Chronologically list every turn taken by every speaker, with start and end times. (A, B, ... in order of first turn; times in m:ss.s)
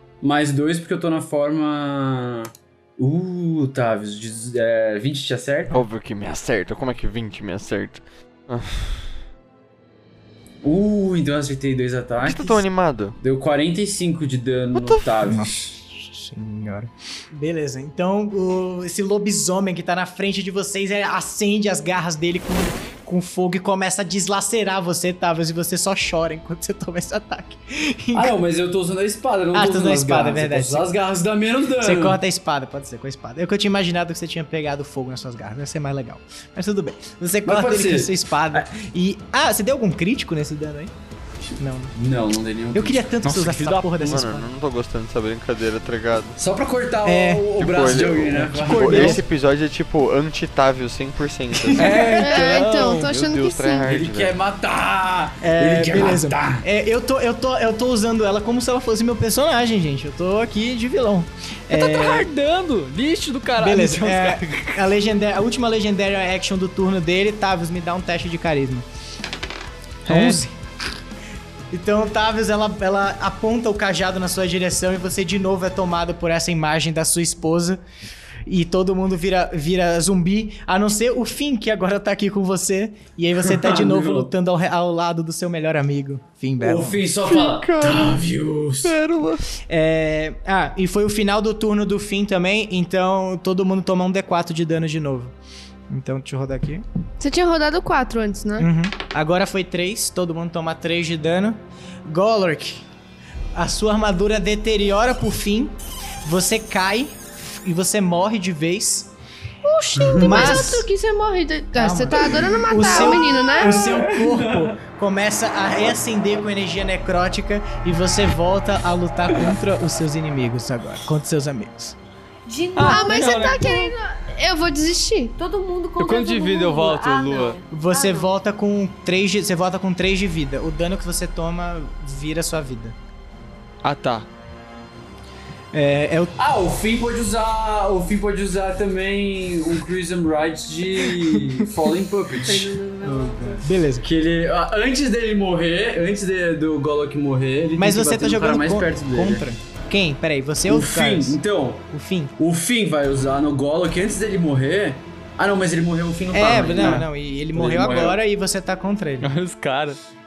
0:00.2-0:05.8 A
0:05.7-0:09.1 B
0:10.6-0:12.6 A
0:12.2-0:13.2 B
0:13.2-0:15.5 A
0:14.7-0:15.2 B
0:15.2-0:28.3 C
0:28.1-0:32.2 A
0:29.5-0:30.9 C
0:31.8-0:40.9 C
0:37.4-0:38.6 A
0:41.6-0:41.9 C
0:41.9-0:43.1 A
0:42.7-0:44.5 C
0:43.2-0:44.0 D
0:44.0-0:46.4 B
0:46.4-0:49.2 A
0:47.0-0:47.5 C
0:47.6-0:54.4 B
0:48.3-0:49.2 C
0:51.5-0:52.6 C
0:51.8-0:53.1 D
0:52.2-0:53.9 E
0:53.8-0:56.6 A
0:55.4-1:02.3 C
1:01.7-1:04.8 D
1:03.6-1:08.8 C
1:10.0-1:10.4 D
1:10.1-1:10.5 C
1:11.7-1:17.8 C
1:18.4-1:27.1 C
1:23.4-1:24.3 A
1:26.6-1:29.0 A
1:27.3-1:28.2 B
1:28.8-1:29.5 B
1:29.6-1:35.3 C
1:35.9-1:36.8 C
1:37.2-1:38.7 E
1:38.6-1:42.8 C
1:43.5-1:49.1 C
1:49.6-1:54.0 E
1:50.0-1:50.6 A
1:50.2-1:50.9 C
1:51.8-2:02.0 C
1:52.9-1:54.7 A
2:02.4-2:03.7 F
2:02.8-2:03.9 D
2:02.8-2:05.3 E
2:05.4-2:08.3 F
2:06.0-2:07.6 D
2:07.7-2:13.0 C
2:13.8-2:14.3 D
2:15.7-2:16.3 C
2:16.4-2:22.8 A
2:22.4-2:23.7 F
2:23.0-2:24.1 C
2:24.0-2:29.4 A
2:27.8-2:31.4 C
2:30.7-2:31.9 A
2:31.9-2:32.3 C
2:32.4-2:38.1 A
2:36.3-2:39.3 C
2:39.2-2:40.0 D